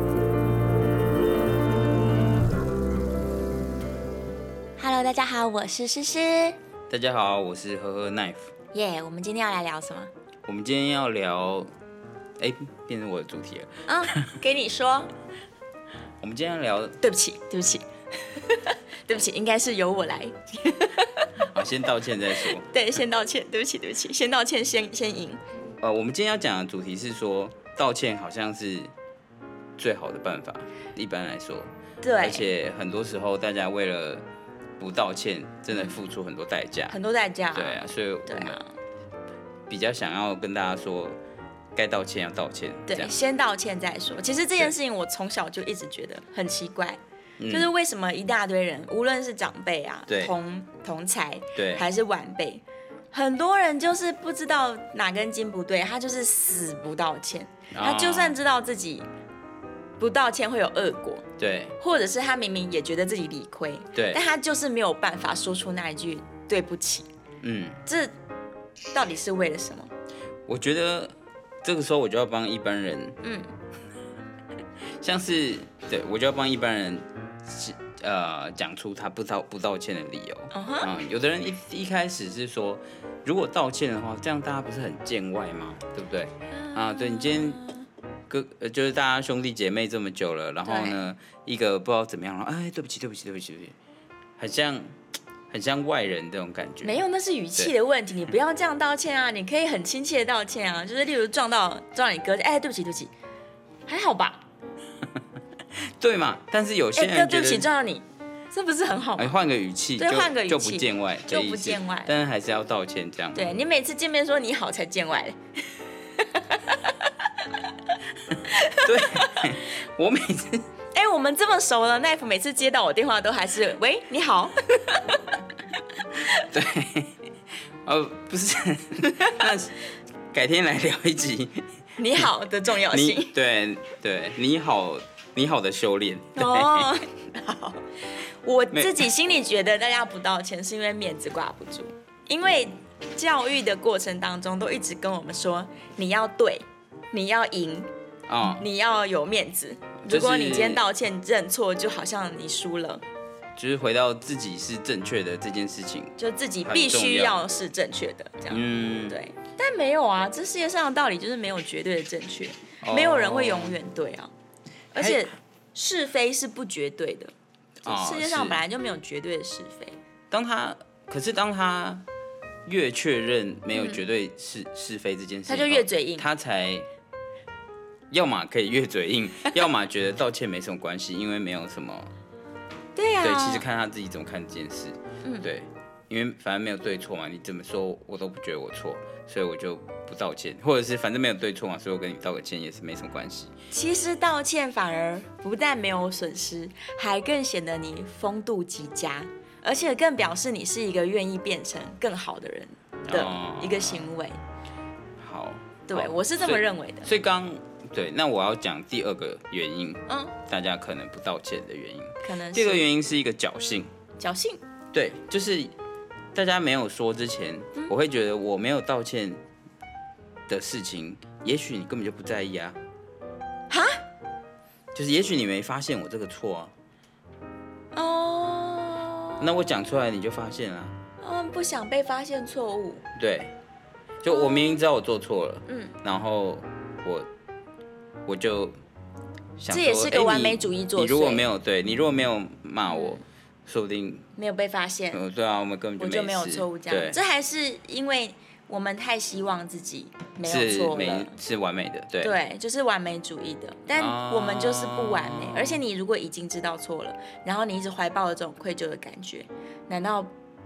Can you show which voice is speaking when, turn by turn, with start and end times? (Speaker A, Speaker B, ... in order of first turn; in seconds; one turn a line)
Speaker A: 4.8-6.6
Speaker B: 6.9-8.5
Speaker A: 8.7-10.1
Speaker B: 10.4-11.7
Speaker B: 12.4-14.3
Speaker A: 13.8-15.1
Speaker B: 16.2-17.0
Speaker A: 17.0-21.3
Speaker B: 21.4-22.6
Speaker A: 22.4-25.4
Speaker B: 25.8-28.9
Speaker B: 29.8-34.2
Speaker A: 32.0-32.5
Speaker B: 34.8-37.0
Speaker A: 36.9-38.7
Speaker B: 37.5-38.6
Speaker B: 39.7-41.2
Speaker B: 41.7-43.1
Speaker A: 42.9-59.1
Speaker B: 47.4-47.7
Speaker B: 50.1-50.3
Speaker B: 51.5-51.8
Speaker B: 57.7-58.4
Speaker A: 60.0-61.2
Speaker B: 61.4-61.8
Speaker A: 61.8-67.1
Speaker B: 63.9-64.2
Speaker B: 67.4-67.8
Speaker A: 67.8-68.1
Speaker A: 68.9-69.9
Speaker B: 70.5-73.2
Speaker A: 73.2-73.5
Speaker B: 75.0-87.6
Speaker A: 80.5-80.9
Speaker A: 86.5-87.9
Speaker B: 88.3-93.8
Speaker A: 90.6-91.0
Speaker B: 94.4-95.0
Speaker B: 95.5-97.0
Speaker A: 96.8-103.1
Speaker A: 103.9-104.4
Speaker B: 105.8-107.7
Speaker A: 107.0-109.3
Speaker B: 109.2-113.5
Speaker A: 110.0-112.1
Speaker A: 113.3-115.4
Speaker A: 116.2-117.7
Speaker B: 118.3-120.7
Speaker A: 118.5-119.5
Speaker A: 120.9-125.3
Speaker A: 126.2-126.5
Speaker B: 126.3-127.2
Speaker B: 127.8-129.7
Speaker B: 130.3-131.7
Speaker A: 132.0-133.3
Speaker B: 132.9-136.9
Speaker A: 136.3-147.9
Speaker B: 138.7-139.1
Speaker B: 148.3-148.7
Speaker A: 148.4-153.0
Speaker B: 150.0-150.8
Speaker B: 153.6-157.4
Speaker A: 156.2-164.3
Speaker B: 158.5-159.2
Speaker B: 162.8-163.8
Speaker A: 164.9-167.3
Speaker B: 164.9-165.2
Speaker B: 167.8-168.6
Speaker A: 167.8-170.0
Speaker B: 170.3-172.0
Speaker B: 172.7-176.9
Speaker A: 173.7-174.0
Speaker A: 175.5-176.2
Speaker B: 178.1-182.1
Speaker A: 182.9-183.6
Speaker B: 183.2-193.5
Speaker A: 185.2-185.5
Speaker A: 193.7-204.4
Speaker B: 203.1-204.1
Speaker B: 205.2-213.9
Speaker A: 205.9-207.1
Speaker A: 210.1-210.3
Speaker A: 212.2-212.9
Speaker A: 214.2-214.6
Speaker B: 214.9-215.7
Speaker B: 216.3-219.4
Speaker B: 220.5-222.8
Speaker A: 223.7-224.0
Speaker B: 224.9-226.7
Speaker A: 227.9-229.5
Speaker B: 229.4-230.9
Speaker A: 231.2-233.0
Speaker B: 233.1-233.5
Speaker B: 234.2-237.3
Speaker A: 234.3-234.7
Speaker A: 235.7-235.9
Speaker B: 238.2-238.8
Speaker B: 239.6-244.3
Speaker A: 239.7-241.4
Speaker A: 242.9-243.2
Speaker A: 244.4-245.2
Speaker B: 245.1-247.2
Speaker A: 246.0-251.4
Speaker B: 250.4-252.3
Speaker A: 252.2-260.3
Speaker B: 253.9-255.8